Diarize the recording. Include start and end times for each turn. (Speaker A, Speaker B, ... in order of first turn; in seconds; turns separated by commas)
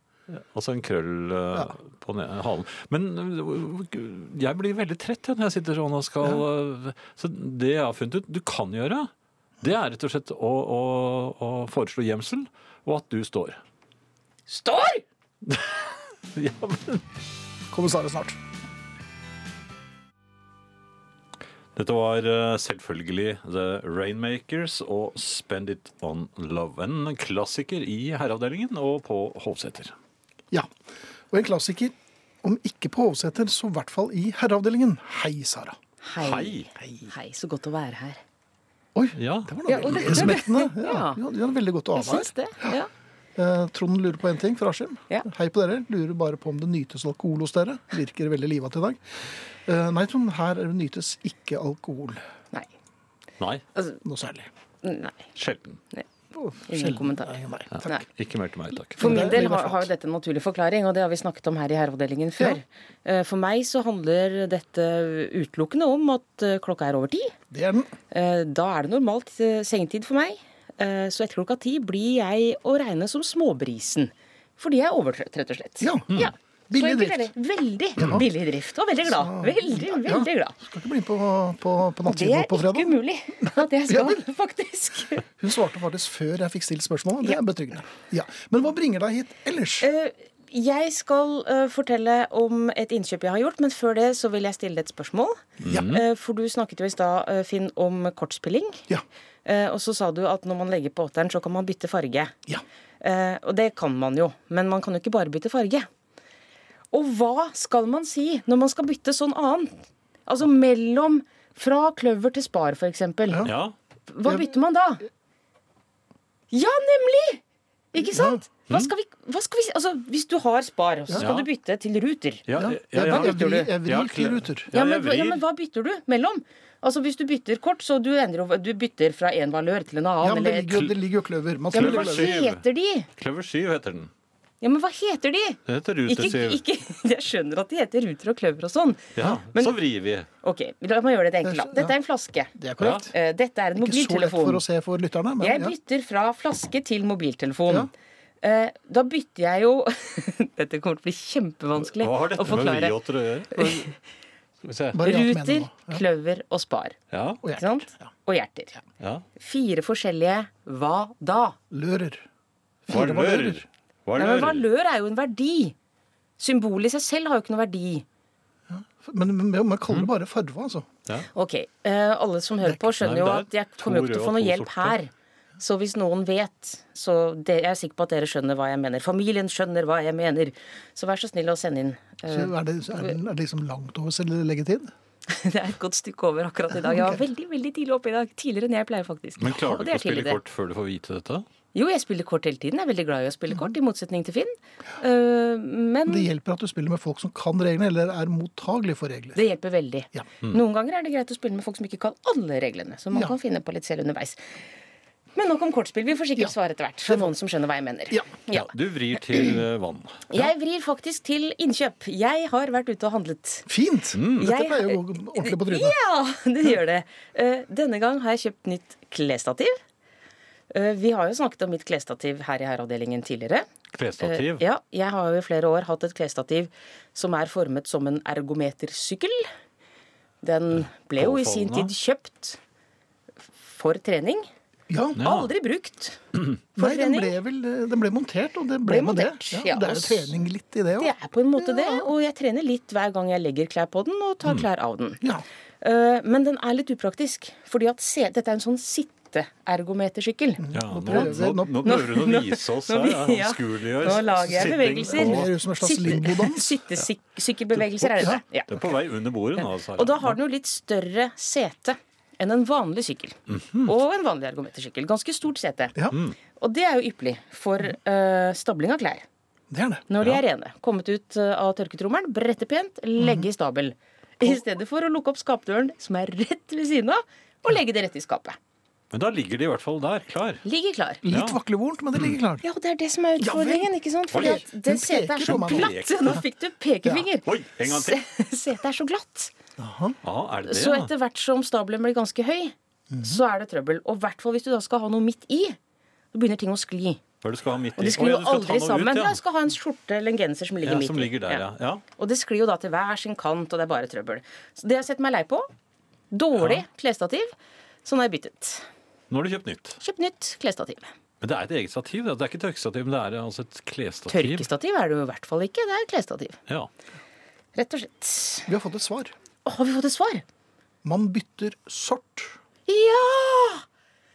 Speaker A: 0.3-9.1, Speaker A: 9.6-13.6, Speaker B: 14.5-15.1, Speaker A: 15.5-17.0, Speaker C: 17.7-18.4, Speaker A: 21.8-29.9, Speaker C: 31.3-35.8, Speaker B: 36.0-38.2, Speaker A: 36.2-36.7, Speaker C: 36.8-37.0, Speaker C: 38.9-42.7, Speaker A: 39.2-40.3, Speaker B: 39.7-41.2, Speaker B: 41.9-42.9, Speaker C: 43.4-52.2, Speaker A: 53.4-53.6, Speaker C: 54.0-54.5, Speaker B: 54.8-55.2, Speaker A: 55.4-55.8, Speaker C: 56.3-58.0, Speaker B: 56.7-58.0, Speaker A: 57.8-59.4, Speaker C: 59.0-59.9, Speaker B: 59.0-67.3, Speaker C: 67.5-67.9, Speaker B: 68.1-80.6, Speaker C: 75.8-77.3, Speaker C: 79.0-82.9, Speaker B: 82.0-85.2, Speaker C: 83.9-84.2, Speaker C: 85.3-89.9, Speaker B: 89.8-98.8, Speaker A: 95.6-96.0, Speaker C: 95.7-96.0, Speaker B: 99.5-102.3, Speaker B: 103.0-105.9, Speaker B: 106.9-109.7, Speaker B: 110.3-113.5, Speaker A: 113.5-113.8, Speaker B: 114.1-115.1, Speaker C: 114.2-114.5, Speaker B: 116.5-117.4, Speaker B: 117.9-122.5, Speaker C: 118.0-118.4, Speaker A: 121.2-121.5, Speaker A: 122.5-125.4, Speaker C: 122.6-124.7, Speaker B: 123.0-123.7, Speaker B: 124.7-130.8, Speaker C: 130.2-132.4, Speaker B: 131.7-133.1, Speaker A: 131.7-132.6, Speaker A: 133.2-134.1, Speaker B: 134.6-139.8, Speaker A: 135.7-136.6, Speaker A: 139.2-140.3, Speaker B: 140.4-142.5, Speaker C: 141.4-141.9, Speaker C: 142.6-143.1, Speaker A: 142.8-143.1, Speaker B: 143.1-144.6, Speaker C: 143.8-145.7, Speaker B: 145.4-147.9, Speaker B: 148.4-153.0, Speaker A: 151.8-153.9, Speaker B: 153.5-153.9, Speaker A: 154.6-155.0, Speaker C: 154.9-156.0, Speaker B: 155.0-157.0, Speaker A: 157.1-157.4, Speaker C: 157.4-157.9, Speaker B: 157.6-158.8, Speaker B: 159.4-161.6, Speaker C: 161.7-162.2, Speaker C: 162.9-163.6, Speaker A: 162.9-164.7, Speaker B: 164.2-165.8, Speaker B: 166.4-168.1, Speaker C: 168.7-170.9, Speaker B: 171.3-183.2, Speaker A: 173.0-175.0, Speaker C: 182.3-184.9, Speaker B: 185.3-190.4, Speaker C: 186.7-187.2, Speaker A: 189.4-191.5, Speaker B: 191.7-196.3, Speaker C: 196.1-199.4, Speaker B: 199.3-204.6, Speaker B: 205.3-208.7, Speaker A: 208.5-210.2, Speaker B: 210.3-213.7, Speaker C: 213.7-216.0, Speaker A: 214.1-214.5, Speaker B: 214.4-219.8, Speaker B: 220.7-223.7, Speaker A: 223.9-224.6, Speaker B: 224.2-229.5, Speaker B: 230.4-232.6, Speaker A: 231.2-231.9, Speaker B: 233.6-234.5, Speaker C: 234.9-235.2, Speaker A: 235.2-235.5, Speaker B: 235.2-236.2, Speaker B: 236.8-237.3, Speaker C: 236.8-242.1, Speaker B: 238.8-240.3, Speaker B: 241.0-245.2, Speaker B: 245.8-258.9, Speaker C: 250.6-251.9, Speaker A: 250.7-255.5, Speaker C: 254.5-256.8, Speaker A: 258.2-260.4, Speaker B: 259.6-265.9, Speaker A: 263.5-263.9, Speaker A: 266.1-266.4, Speaker B: 266.6-269.3, Speaker C: 269.7-270.1, Speaker B: 270.1-278.6, Speaker C: 273.2-273.5, Speaker A: 279.1-280.6, Speaker B: 280.6-281.2, Speaker C: 281.2-282.6, Speaker A: 281.3-281.6, Speaker B: 282.6-289.5, Speaker C: 283.4-286.3, Speaker A: 284.3-284.6, Speaker A: 285.4-286.4, Speaker A: 287.4-288.2, Speaker C: 289.8-290.2, Speaker A: 290.2-291.1, Speaker B: 290.7-295.8, Speaker C: 293.1-293.4, Speaker B: 296.3-297.2, Speaker A: 297.4-299.4, Speaker B: 298.0-301.6, Speaker A: 300.8-302.0, Speaker B: 302.2-305.7, Speaker B: 306.3-307.5, Speaker A: 306.6-306.8, Speaker B: 308.1-308.9, Speaker A: 309.3-310.0, Speaker B: 310.0-311.1, Speaker A: 311.4-314.7, Speaker B: 314.3-316.6, Speaker B: 317.8-318.7, Speaker C: 318.7-319.3, Speaker B: 319.6-320.4, Speaker C: 321.0-322.6, Speaker B: 322.9-323.9